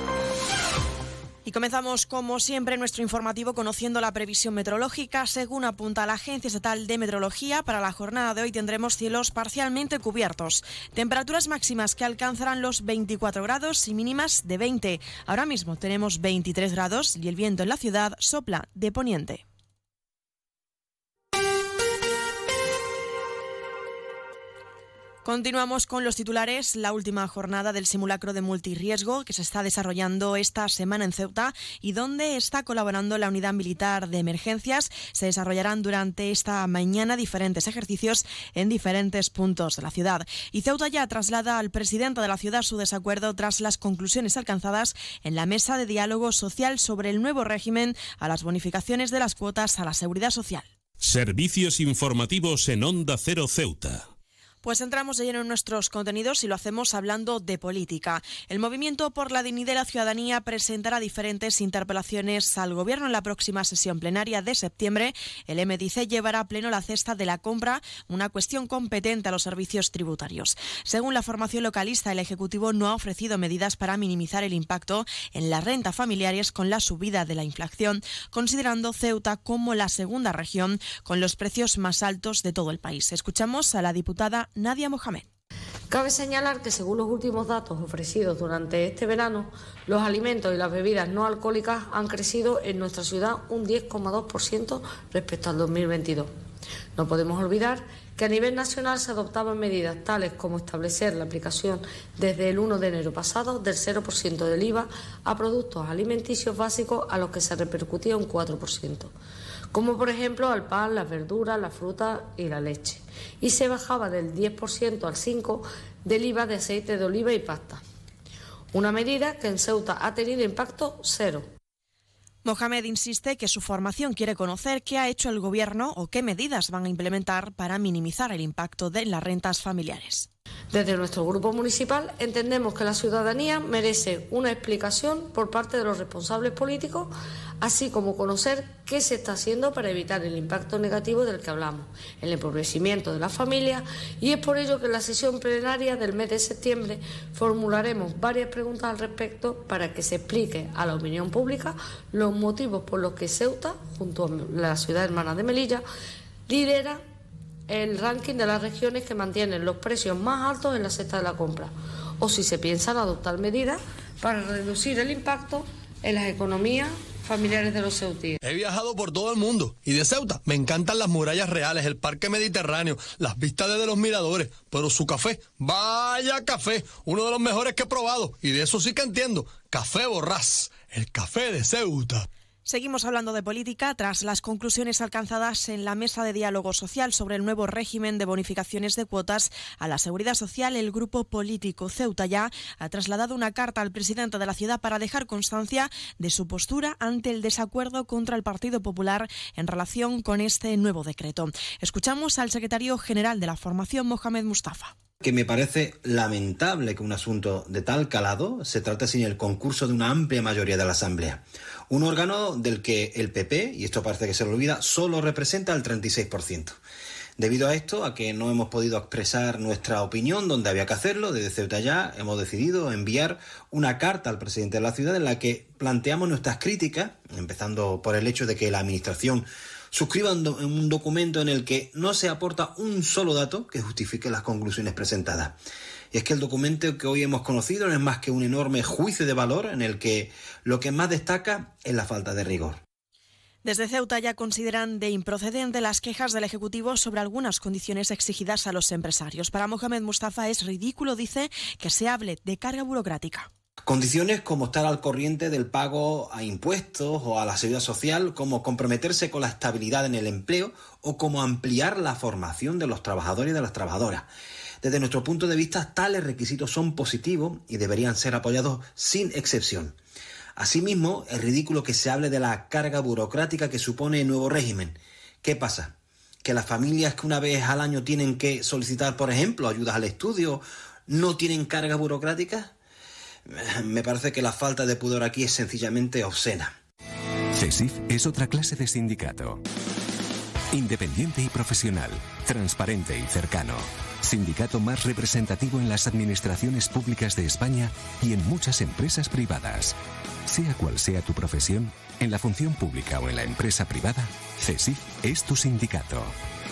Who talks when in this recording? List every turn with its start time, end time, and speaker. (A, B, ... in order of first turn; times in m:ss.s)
0:01.4-0:19.4 A
0:25.2-0:50.7 A
0:51.0-0:54.1 B
0:54.6-1:25.3 A
1:25.9-1:36.3 C
1:37.0-1:49.1 C
1:49.7-1:57.8 C
1:58.7-2:01.4 C
2:02.4-2:10.3 A
2:10.7-2:17.1 C
2:17.6-2:35.8 C
2:36.5-2:37.0 C
2:37.7-2:48.4 C
2:48.4-3:02.2 D
3:02.6-3:24.9 A
3:25.2-3:36.7 E
3:37.4-3:55.6 E
3:56.1-4:02.8 E
4:03.6-4:13.5 A
4:13.8-4:24.3 E
4:24.8-4:30.0 E
4:30.6-4:42.7 E
4:43.5-4:46.7 E
4:47.6-4:49.6 F
4:50.7-4:59.9 F
5:00.5-5:06.3 F